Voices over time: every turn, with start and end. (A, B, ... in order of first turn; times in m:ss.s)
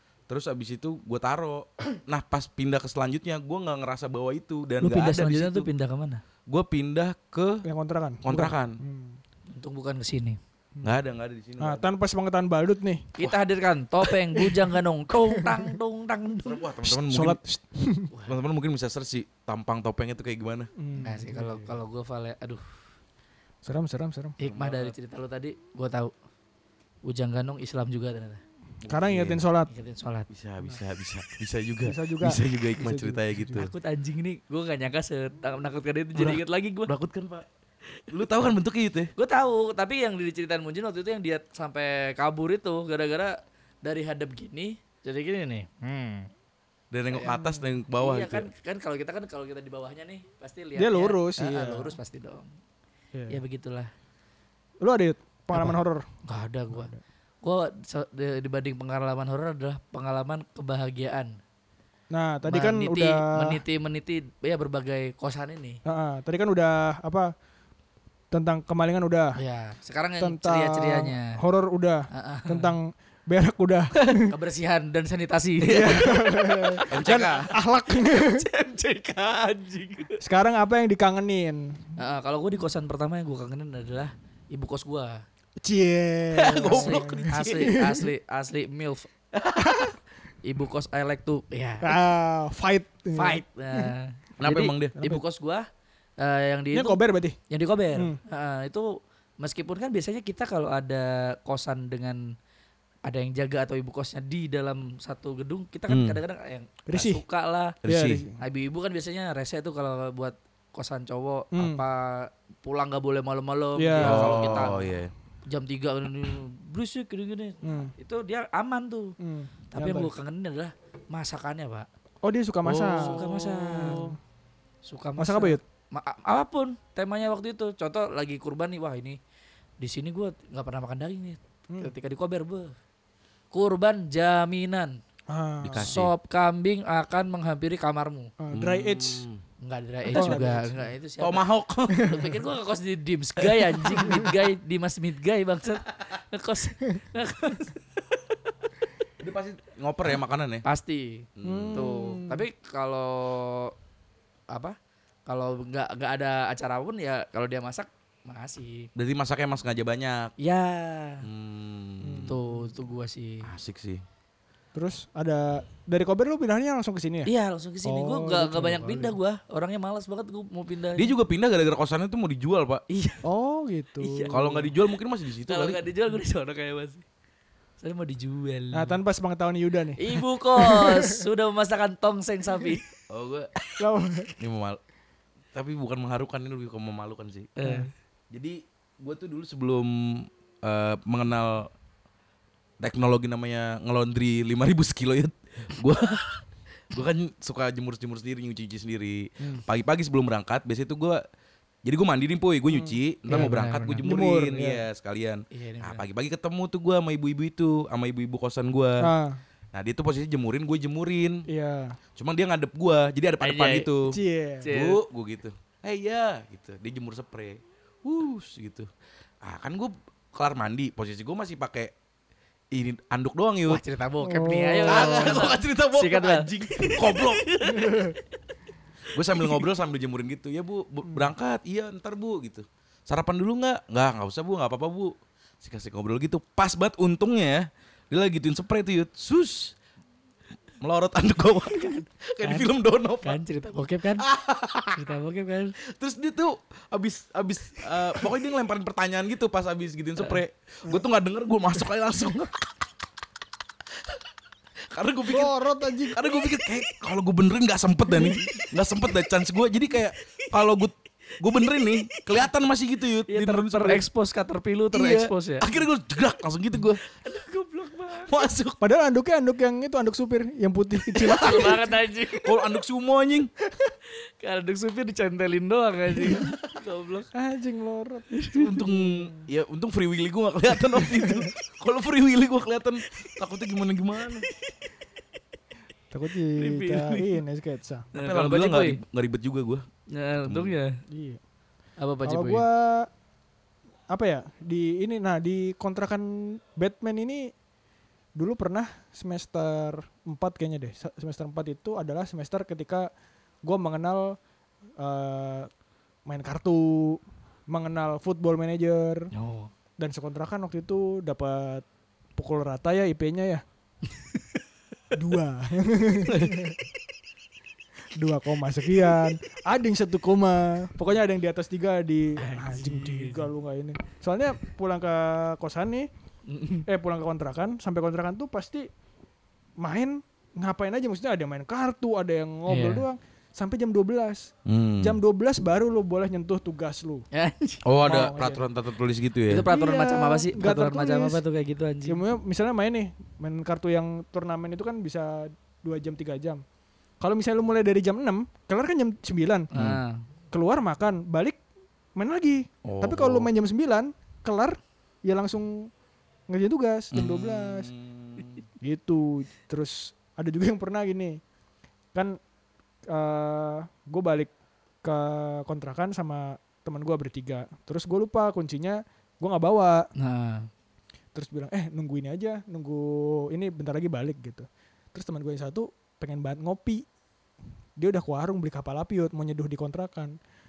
0:00.3-0:05.7 A
0:04.8-0:06.2 B
0:06.5-0:07.6 A
0:07.6-0:09.2 C
0:08.2-0:08.8 A
0:09.5-0:10.4 B
0:10.8-0:11.9 A
0:11.6-0:13.1 C
0:13.2-0:16.6 B
0:15.3-0:15.7 C
0:16.4-0:17.4 A
0:16.8-0:18.1 C
0:18.1-0:18.4 B
0:18.2-0:20.7 A
0:20.8-0:21.7 C
0:21.0-0:22.6 B
0:23.6-0:24.4 C
0:24.4-0:26.1 B
0:24.4-0:24.9 A
0:27.0-0:28.4 B
0:28.8-0:29.4 A
0:28.9-0:29.7 C
0:29.7-0:30.3 B
0:30.3-0:33.7 A
0:31.8-0:33.7 C
0:33.6-0:36.9 B
0:36.1-0:37.5 A
0:38.1-0:39.1 A
0:39.2-0:46.3 B
0:46.9-0:48.5 A
0:47.1-0:47.4 B
0:47.3-0:47.6 C
0:47.9-0:52.5 B
0:50.8-0:52.0 C
0:53.1-0:53.4 C
0:53.3-0:53.9 B
0:54.8-0:56.0 C
0:55.5-0:56.9 B
0:56.7-0:57.0 C
0:57.4-1:01.4 B
1:02.1-1:03.6 C
1:02.4-1:05.8 B
1:05.8-1:07.3 C
1:08.3-1:09.4 C
1:09.4-1:11.4 B
1:10.2-1:14.3 C
1:12.1-1:12.8 B
1:14.2-1:20.2 B
1:15.6-1:16.1 A
1:15.6-1:18.4 C
1:16.9-1:17.5 A
1:20.2-1:21.8 C
1:22.0-1:25.2 B
1:25.6-1:28.1 C
1:26.3-1:27.6 A
1:26.7-1:29.1 B
1:29.4-1:29.8 A
1:30.4-1:32.0 B
1:31.8-1:33.9 C
1:33.1-1:35.6 B
1:34.4-1:34.9 A
1:35.0-1:35.2 C
1:36.2-1:42.3 B
1:36.7-1:37.4 C
1:43.0-1:47.8 B
1:45.9-1:46.2 A
1:46.9-1:47.2 C
1:47.8-1:48.2 A
1:47.8-1:48.4 C
1:48.4-1:54.9 B
1:51.5-1:51.8 C
1:53.8-1:54.7 C
1:54.0-1:55.1 A
1:55.5-1:59.2 B
1:57.6-1:57.9 C
1:59.2-2:00.1 C
1:59.7-2:01.9 B
2:02.2-2:03.2 C
2:02.6-2:04.2 A
2:03.0-2:04.0 B
2:03.8-2:04.1 C
2:04.8-2:09.2 B
2:05.2-2:05.6 C
2:09.8-2:12.7 B
2:13.5-2:15.0 B
2:15.3-2:16.0 C
2:15.6-2:16.1 A
2:15.7-2:18.3 B
2:18.4-2:19.2 C
2:18.5-2:19.4 A
2:19.6-2:27.8 B
2:20.1-2:20.4 A
2:20.1-2:20.9 C
2:21.2-2:22.2 A
2:22.0-2:22.3 C
2:23.4-2:24.2 A
2:29.2-2:30.6 A
2:30.6-2:33.7 B
2:31.4-2:31.9 A
2:31.4-2:32.4 C
2:34.5-2:34.8 B
2:35.3-2:38.9 B
2:39.0-2:40.3 A
2:40.4-2:41.3 B
2:41.2-2:42.4 A
2:42.0-2:42.8 C
2:42.2-2:43.5 B
2:43.4-2:44.0 A
2:44.7-2:47.3 C
2:47.2-2:51.1 B
2:47.8-2:49.2 C
2:51.0-2:52.8 A
2:52.9-2:53.2 B
2:53.2-2:54.7 C
2:54.0-2:54.4 B
2:54.3-2:55.8 A
2:55.4-2:57.0 B
2:57.8-2:59.0 B
2:58.7-3:01.2 C
3:00.0-3:02.8 B
3:03.1-3:03.5 A
3:03.8-3:04.3 C
3:04.4-3:04.8 A
3:05.5-3:07.5 A
3:07.6-3:07.9 B
3:07.6-3:07.9 C
3:08.3-3:11.7 A
3:12.8-3:21.2 A
3:21.8-3:29.1 A
3:22.7-3:23.0 C
3:23.3-3:24.0 B
3:24.0-3:24.8 C
3:25.5-3:26.0 B
3:29.0-3:29.4 C
3:29.7-3:31.4 A
3:31.5-3:32.0 C
3:32.2-3:38.9 A
3:33.4-3:33.9 B
3:34.0-3:34.7 C
3:34.6-3:35.0 B
3:39.4-3:41.9 A
3:42.7-3:43.8 A
3:43.7-3:48.2 B
3:44.2-3:45.5 C
3:44.8-3:47.4 A
3:47.7-3:48.2 C
3:49.1-3:59.8 A
4:00.8-4:03.4 A
4:01.7-4:02.7 B
4:03.2-4:04.3 B
4:04.2-4:05.0 A
4:04.9-4:05.8 B
4:05.8-4:12.6 A
4:14.9-4:24.0 A
4:15.2-4:16.2 C
4:18.1-4:18.6 B
4:23.3-4:25.7 B
4:24.9-4:27.0 A
4:27.0-4:28.3 B
4:28.3-4:28.8 A
4:28.8-4:31.8 C
4:31.1-4:32.5 B
4:31.2-4:31.8 A
4:32.3-4:33.5 A
4:34.4-4:37.3 B
4:37.3-4:39.5 C
4:38.3-4:38.7 B
4:38.5-4:44.5 A
4:40.9-4:41.4 C
4:46.1-4:48.1 C
4:46.6-4:47.4 B
4:48.1-4:49.0 B
4:48.1-4:49.8 A
4:50.1-4:50.9 B
4:50.4-4:50.7 A
4:51.1-4:51.4 C
4:52.0-4:52.6 B
4:52.2-4:53.1 C
4:54.1-4:57.5 C
4:58.4-5:03.1 C
5:03.6-5:04.4 C
5:05.0-5:05.7 C
5:06.2-5:09.3 C
5:09.3-5:09.7 B
5:10.0-5:11.8 C
5:12.4-5:13.6 C
5:15.1-5:16.8 C
5:18.1-5:26.1 C
5:22.4-5:23.5 B
5:26.5-5:26.9 B
5:26.8-5:28.9 C
5:29.8-5:37.2 C
5:32.7-5:33.0 B
5:34.6-5:35.2 A
5:37.3-5:37.8 B
5:37.8-5:39.7 A
5:38.0-5:38.6 C
5:39.5-5:42.2 B
5:39.7-5:41.4 C
5:42.1-5:46.6 C
5:47.2-5:49.7 C
5:49.7-5:50.2 B
5:49.7-5:50.0 A
5:50.5-5:51.6 C
5:52.1-5:55.9 C
5:52.8-5:53.5 A
5:56.5-5:57.9 C
5:57.1-5:58.6 A
5:58.8-6:01.4 C
6:02.1-6:02.4 C
6:03.1-6:04.5 C
6:05.0-6:10.1 C
6:10.2-6:10.7 B
6:11.3-6:17.0 C
6:18.0-6:20.3 C